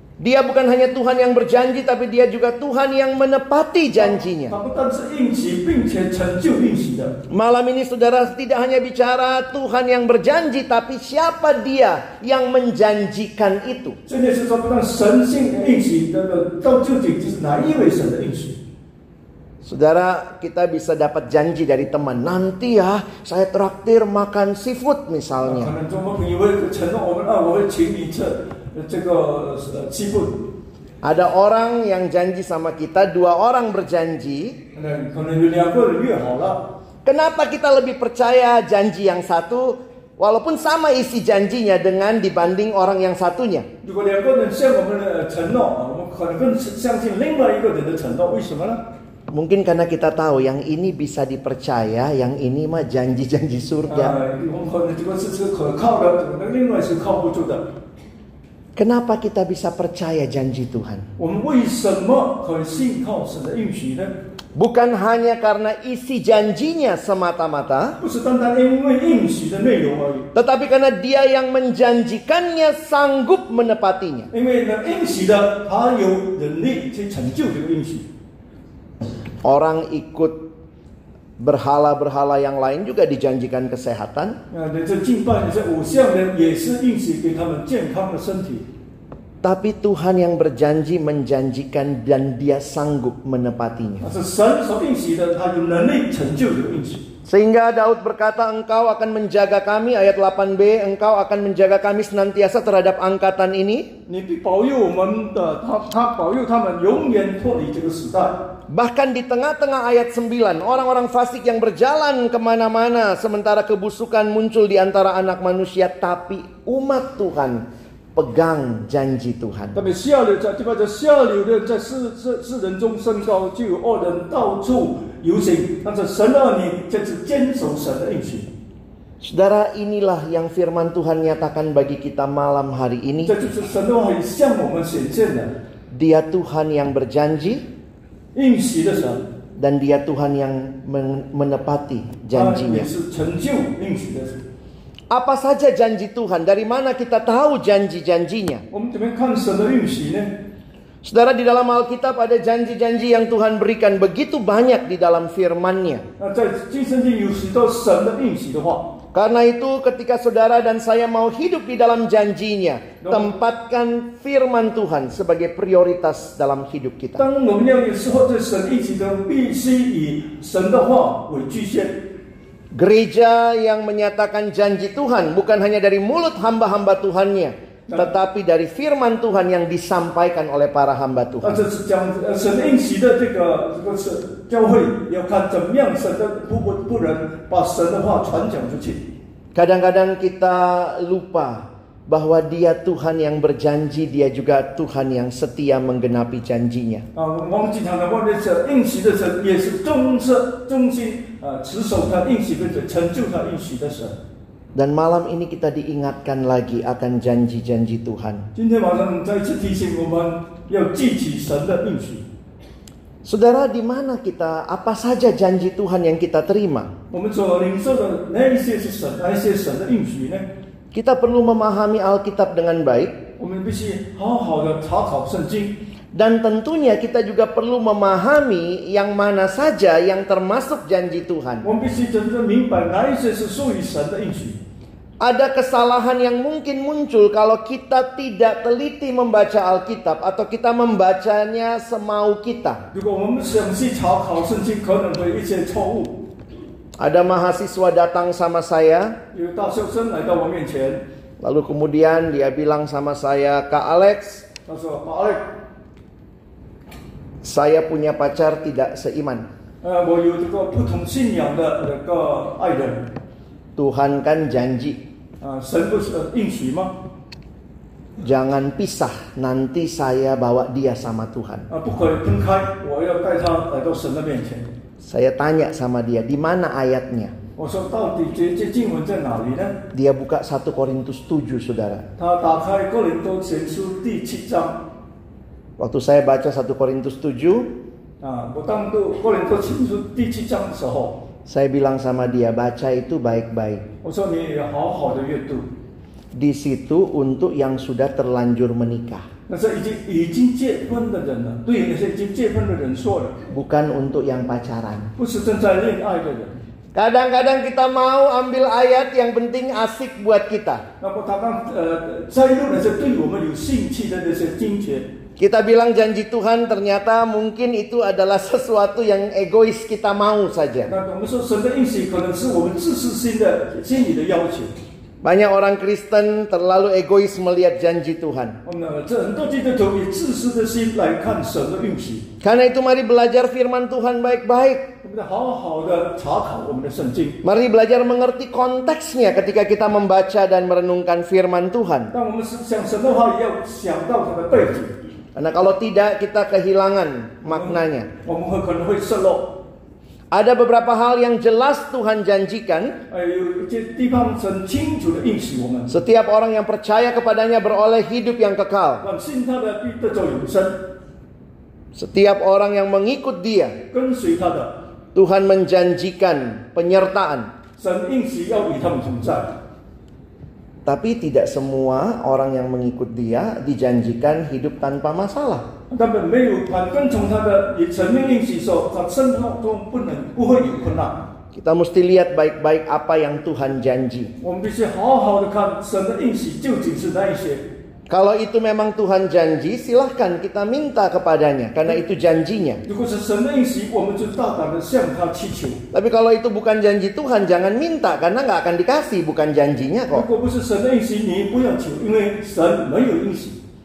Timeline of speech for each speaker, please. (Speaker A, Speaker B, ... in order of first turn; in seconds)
Speaker A: 0.2-4.5, 7.3-14.0, 19.6-25.7, 31.0-34.6, 37.0-43.6, 49.3-54.1, 58.8-61.0, 64.5-68.0, 70.3-74.3, 79.4-80.4, 81.4-84.4, 89.4-94.0, 97.2-103.9, 108.7-117.6, 118.2-119.8, 129.2-133.3, 135.9-137.6, 139.6-142.9, 145.1-148.6, 151.0-156.0, 159.1-167.2, 172.7-181.6, 189.5-197.0, 204.7-208.4, 213.2-216.9, 220.9-223.1, 226.1-231.6, 235.2-242.8, 247.0-249.2, 251.4-254.4, 257.4-259.5, 263.8-265.0, 268.2-271.7, 275.0-277.3, 279.9-282.0, 285.8-287.7, 291.5-293.8, 296.3-299.2, 303.5-305.1, 306.9-310.8, 315.4-320.9, 325.2-328.6, 332.4-334.8, 337.4-342.1, 345.4-348.1, 350.3-352.9, 355.9-359.0, 361.9-363.7, 365.1-367.5, 370.9-375.6, 381.5-384.3, 388.1-392.8, 395.9-400.2
Speaker B: 3.9-7.1, 14.1-18.6, 25.4-30.4, 34.7-36.6, 43.8-48.8, 53.9-57.6, 61.2-64.1, 68.0-70.3, 74.3-78.0, 84.5-88.6, 94.0-97.0, 104.1-108.4, 119.7-128.5, 133.2-135.5, 138.3-139.2, 142.3-144.4, 148.7-150.3, 156.2-158.9, 163.0-163.3, 167.2-172.0, 181.4-189.1, 197.1-204.2, 208.5-212.2, 217.1-220.4, 223.4-225.8, 231.6-234.6, 242.9-246.1, 249.3-251.0, 254.7-255.5, 259.8-263.1, 265.4-266.9, 271.7-274.7, 277.6-279.8, 282.2-284.8, 288.2-291.2, 294.0-295.7, 299.5-303.4, 305.2-306.6, 311.0-315.1, 320.9-324.7, 328.6-332.2, 335.0-337.4, 342.1-344.9, 347.4-349.5, 353.1-356.0, 359.0-360.8, 363.9-364.7, 367.8-369.5, 375.9-381.3, 384.4-387.6, 392.9-395.8, 400.1-403.6